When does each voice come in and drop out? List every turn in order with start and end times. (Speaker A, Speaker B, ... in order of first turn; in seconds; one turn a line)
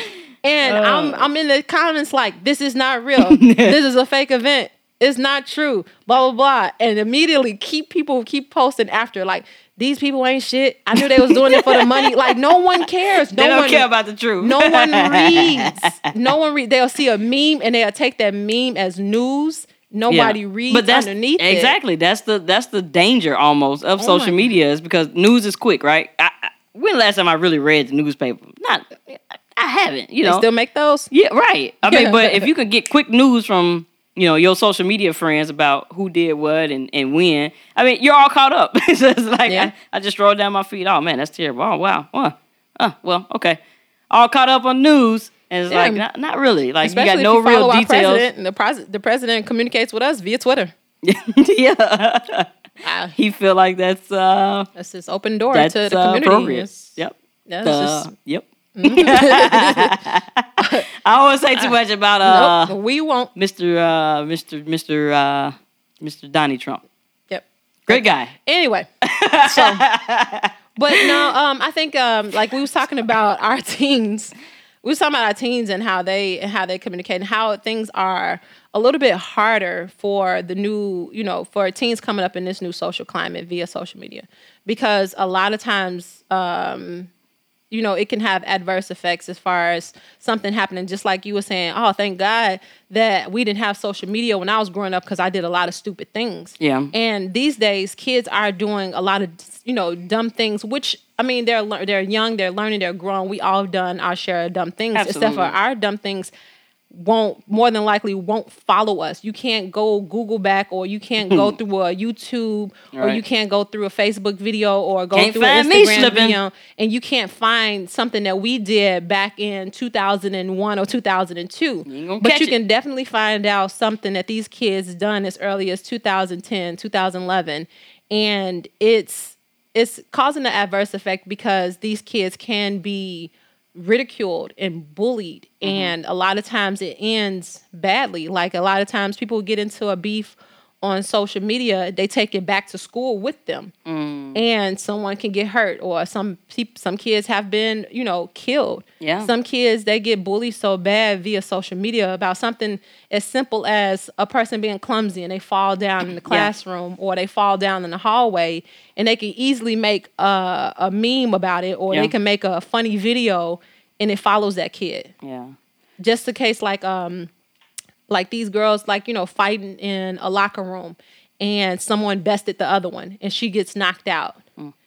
Speaker A: 0.4-13.9
Speaker B: 0.7-1.3
Speaker B: 3.2-3.8
Speaker B: 11.0-12.1
Speaker B: 13.3-16.1
Speaker A: 14.4-21.8
Speaker B: 20.1-30.4
Speaker A: 24.0-24.5
Speaker A: 30.2-31.1
Speaker B: 31.1-43.6
Speaker A: 31.9-32.5
Speaker A: 39.5-39.7
Speaker B: 44.1-48.3
Speaker A: 45.7-46.0
Speaker A: 46.8-50.7
Speaker B: 51.0-52.5
Speaker A: 52.8-53.1
Speaker B: 53.2-54.7
Speaker A: 54.8-57.0
Speaker B: 55.5-62.8
Speaker A: 57.5-58.1
Speaker A: 58.8-59.9
Speaker A: 60.6-60.9
Speaker A: 62.2-63.3
Speaker B: 63.4-66.8
Speaker A: 67.3-68.9
Speaker B: 67.9-68.3
Speaker B: 69.0-71.1
Speaker A: 69.4-69.8
Speaker A: 70.8-87.1
Speaker A: 87.7-106.3
Speaker B: 96.6-96.9
Speaker B: 104.9-105.5
Speaker A: 106.9-143.7
Speaker B: 111.3-111.5
Speaker B: 112.9-113.2
Speaker B: 115.1-116.4
Speaker B: 121.9-122.5
Speaker B: 135.6-135.9
Speaker B: 143.9-144.4
Speaker A: 144.3-165.1
Speaker B: 149.0-149.3
Speaker B: 165.2-165.5
Speaker A: 166.0-167.3
Speaker A: 168.1-174.4